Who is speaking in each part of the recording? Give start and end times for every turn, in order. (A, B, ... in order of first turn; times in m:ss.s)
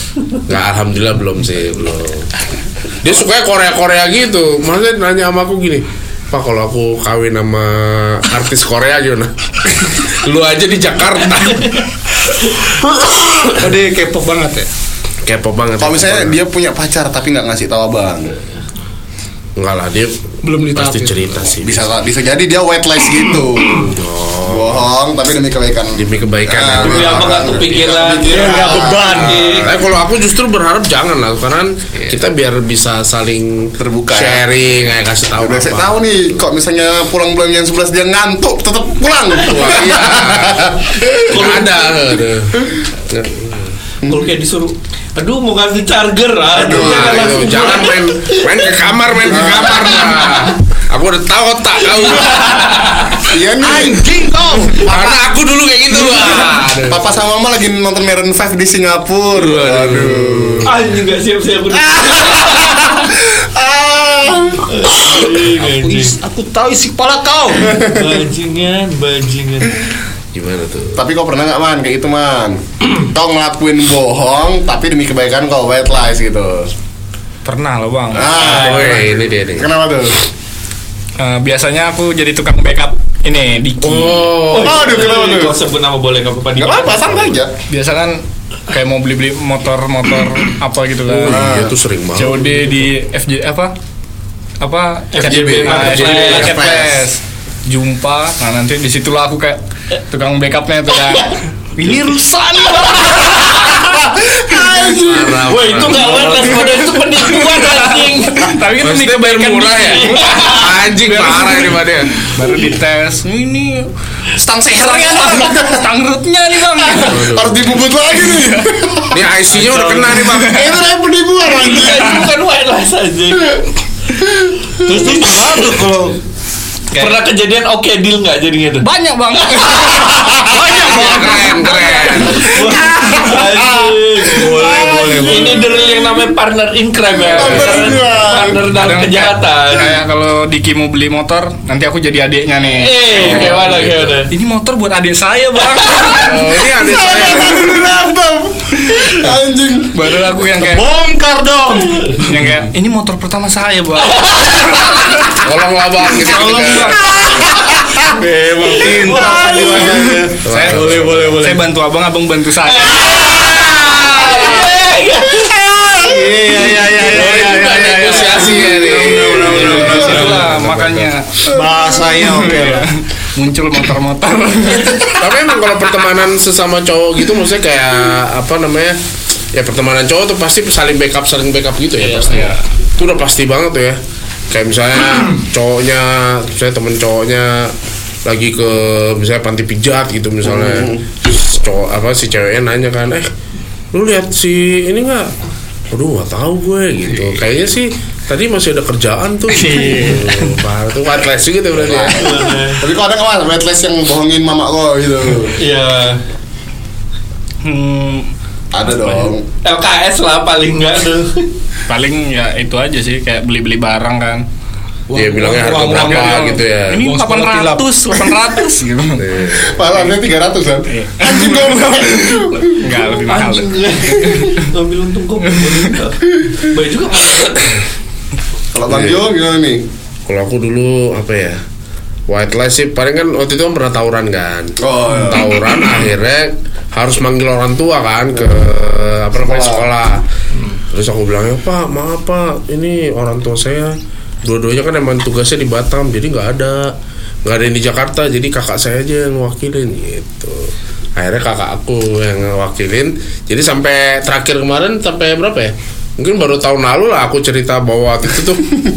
0:00.5-0:02.3 A
0:03.0-0:11.8 A
0:12.7-0:13.5 A
0:13.5-0:14.7 B
0:15.2-0:16.3 A
0:15.8-0:18.3 C
0:19.6-0:20.2 A
0:20.4-0:21.5 B
0:20.7-0:21.9 A
0:21.6-0:29.8 C
0:23.7-0:24.9 A
0:25.9-0:27.6 A
0:26.8-0:29.4 D
0:28.2-0:29.7 B
0:29.6-0:36.0 A
0:33.8-0:34.4 C
0:35.4-0:41.0 C
0:39.4-0:43.8 A
0:41.3-0:41.7 D
0:44.0-0:48.7 D
0:46.5-0:47.6 C
0:46.6-0:52.7 A
0:49.2-0:50.2 C
0:49.8-0:50.5 D
0:51.9-0:53.2 D
0:53.2-0:54.1 C
0:53.6-0:54.9 B
0:54.8-0:55.2 C
0:54.8-0:57.0 A
0:56.0-1:00.7 C
0:59.3-1:00.7 A
1:00.6-1:02.9 D
1:01.8-1:04.7 C
1:04.7-1:06.2 D
1:05.6-1:07.8 B
1:07.7-1:08.2 C
1:07.8-1:09.8 D
1:10.3-1:11.0 A
1:11.0-1:16.7 C
1:17.4-1:18.4 E
1:18.1-1:20.2 C
1:18.2-1:18.9 D
1:18.4-1:19.7 A
1:21.2-1:24.3 E
1:23.8-1:24.9 A
1:24.5-1:27.1 D
1:24.5-1:25.6 C
1:26.6-1:27.5 C
1:27.7-1:31.4 E
1:31.1-1:32.8 A
1:31.3-1:31.8 C
1:32.1-1:33.7 E
1:34.6-1:43.5 E
1:35.1-1:36.6 D
1:35.2-1:37.0 C
1:35.8-1:36.4 A
1:43.4-1:45.8 C
1:45.0-1:46.2 A
1:45.4-1:48.6 D
1:45.9-1:53.9 E
1:48.8-1:52.1 A
1:49.8-1:50.6 D
1:54.4-1:55.9 C
1:54.7-1:57.3 E
1:56.9-1:59.3 C
1:57.1-1:57.6 A
1:59.1-2:00.6 A
1:59.5-2:00.6 E
2:00.3-2:02.3 C
2:01.6-2:03.6 D
2:04.8-2:06.2 B
2:04.9-2:05.3 C
2:06.9-2:08.9 D
2:08.9-2:11.8 E
2:09.2-2:12.4 B
2:10.1-2:10.4 C
2:10.7-2:12.5 A
2:12.3-2:20.0 D
2:12.6-2:15.6 C
2:14.4-2:15.5 B
2:14.4-2:15.7 E
2:17.1-2:18.6 C
2:17.3-2:17.9 A
2:18.6-2:26.5 E
2:22.8-2:24.3 D
2:23.2-2:24.2 A
2:26.2-2:27.6 A
2:26.7-2:30.0 C
2:29.9-2:30.9 E
2:30.6-2:32.2 B
2:31.9-2:34.9 E
2:34.1-2:34.8 D
2:35.4-2:37.0 A
2:36.1-2:37.3 E
2:37.2-2:38.2 C
2:38.2-2:43.3 E
2:38.2-2:41.6 B
2:39.0-2:39.9 D
2:39.7-2:40.2 C
2:40.4-2:41.4 A
2:42.6-2:45.7 D
2:46.0-2:51.4 E
2:46.0-2:48.4 B
2:47.0-2:51.1 A
2:49.4-2:50.5 D
2:51.5-2:52.9 B
2:52.2-2:55.2 E
2:55.2-2:59.0 A
2:59.5-3:04.0 A
3:02.0-3:02.6 E
3:04.5-3:07.7 A
3:08.2-3:13.3 A
3:10.4-3:11.0 C
3:13.9-3:15.3 A
3:15.9-3:22.3 A
3:19.5-3:20.6 E
3:21.8-3:25.6 C
3:22.2-3:22.9 D
3:25.6-3:26.2 D
3:27.6-3:28.3 E
3:28.7-3:29.4 C
3:29.6-3:31.5 D
3:31.9-3:34.4 E
3:35.1-3:38.3 B
3:35.1-3:37.1 A
3:35.8-3:39.3 E
3:39.2-3:39.8 A
3:39.5-3:42.9 C
3:40.9-3:44.7 E
3:43.1-3:47.8 D
3:48.7-3:49.8 C
3:48.9-3:49.2 A
3:50.2-3:51.6 A
3:52.3-4:00.2 A
3:54.8-3:55.6 C
3:58.4-3:58.7 C
3:59.3-3:59.9 C
4:00.9-4:18.7 A